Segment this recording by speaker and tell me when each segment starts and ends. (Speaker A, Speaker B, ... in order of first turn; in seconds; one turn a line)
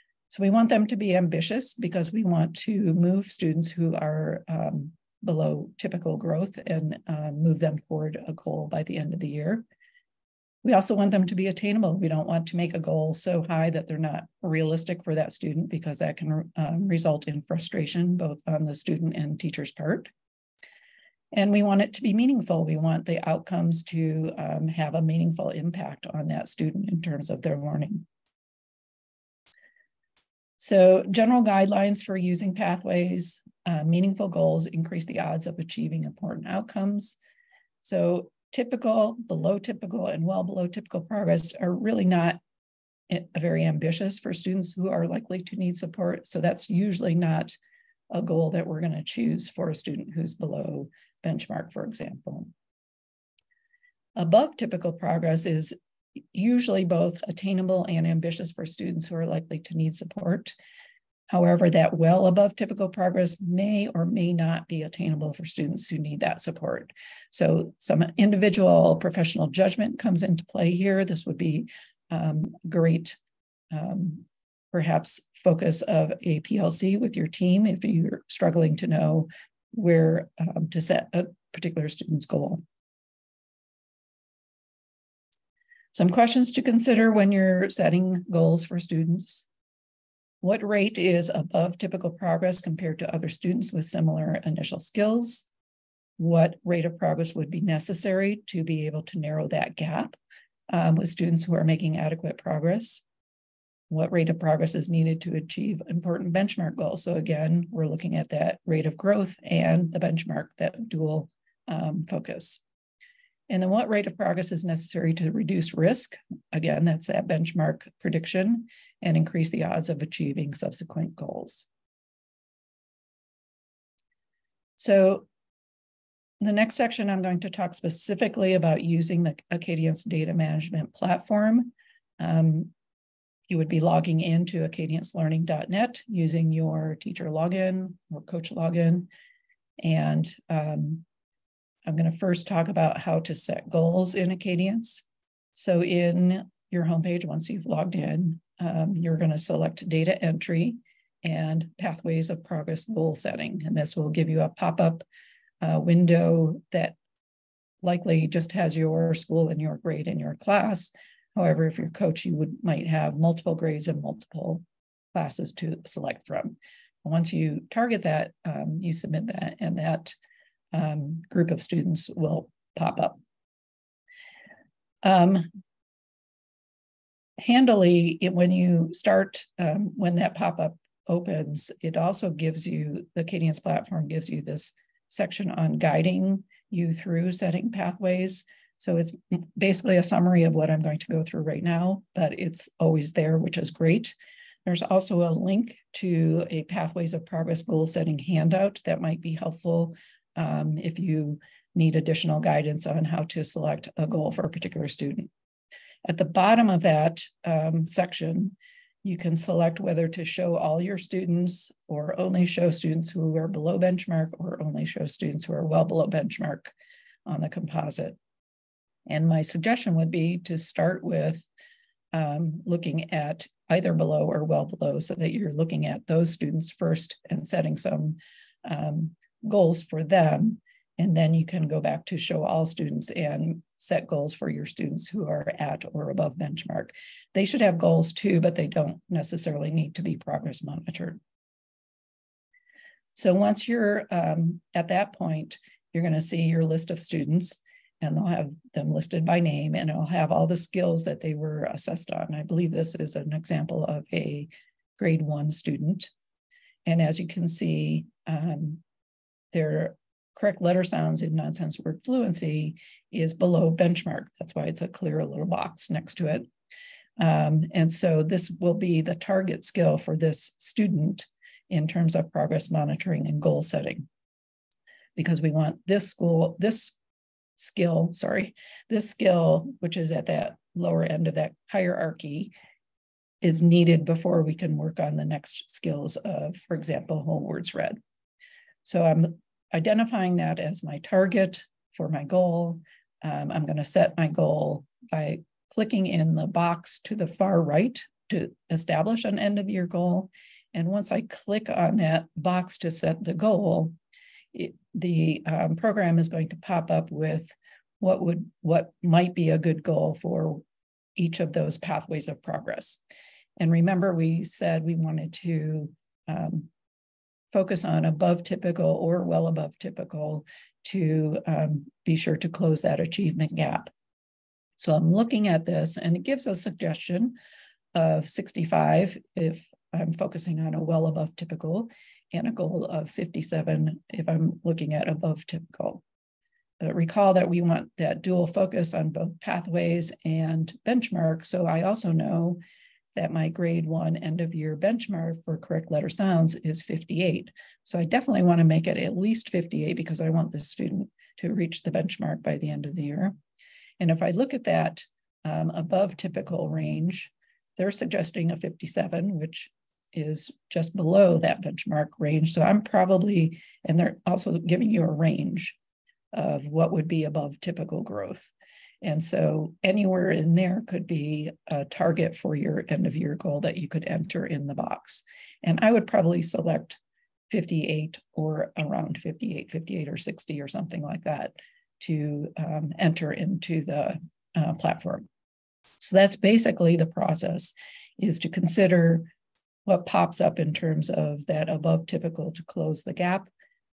Speaker A: 0.3-9.7
Speaker A: 10.6-20.1
Speaker A: 21.3-28.1
Speaker A: 30.6-37.2
Speaker A: 37.8-42.4
Speaker A: 43.1-47.6
Speaker A: 48.1-52.5
Speaker A: 54.1-55.8
Speaker A: 56.3-60.6
Speaker A: 61.3-73.2
Speaker A: 73.7-82.6
Speaker A: 85.9-89.5
Speaker A: 90.4-95.5
Speaker A: 96.2-100.2
Speaker A: 100.7-103.0
Speaker A: 103.9-112.6
Speaker A: 113.5-121.7
Speaker A: 124.8-125.3
Speaker A: 126.4-132.7
Speaker A: 133.5-139.1
Speaker A: 139.8-141.0
Speaker A: 141.9-155.0
Speaker A: 155.6-157.0
Speaker A: 157.8-170.2
Speaker A: 170.7-173.2
Speaker A: 175.0-175.5
Speaker A: 177.4-205.3
Speaker A: 206.0-216.7
Speaker A: 217.2-218.2
Speaker A: 219.1-221.5
Speaker A: 222.1-241.2
Speaker A: 243.1-256.1
Speaker A: 256.9-258.8
Speaker A: 259.5-266.5
Speaker A: 267.2-274.1
Speaker A: 275.1-277.0
Speaker A: 277.6-282.5
Speaker A: 283.4-288.0
Speaker A: 288.8-304.0
Speaker A: 304.5-310.6
Speaker A: 311.2-313.0
Speaker A: 313.6-316.7
Speaker A: 317.5-323.9
Speaker A: 324.8-327.4
Speaker A: 327.9-336.0
Speaker A: 336.8-342.6
Speaker A: 343.1-353.4
Speaker A: 354.0-365.8
Speaker A: 366.3-385.2
Speaker A: 386.0-389.3
Speaker A: 389.9-393.5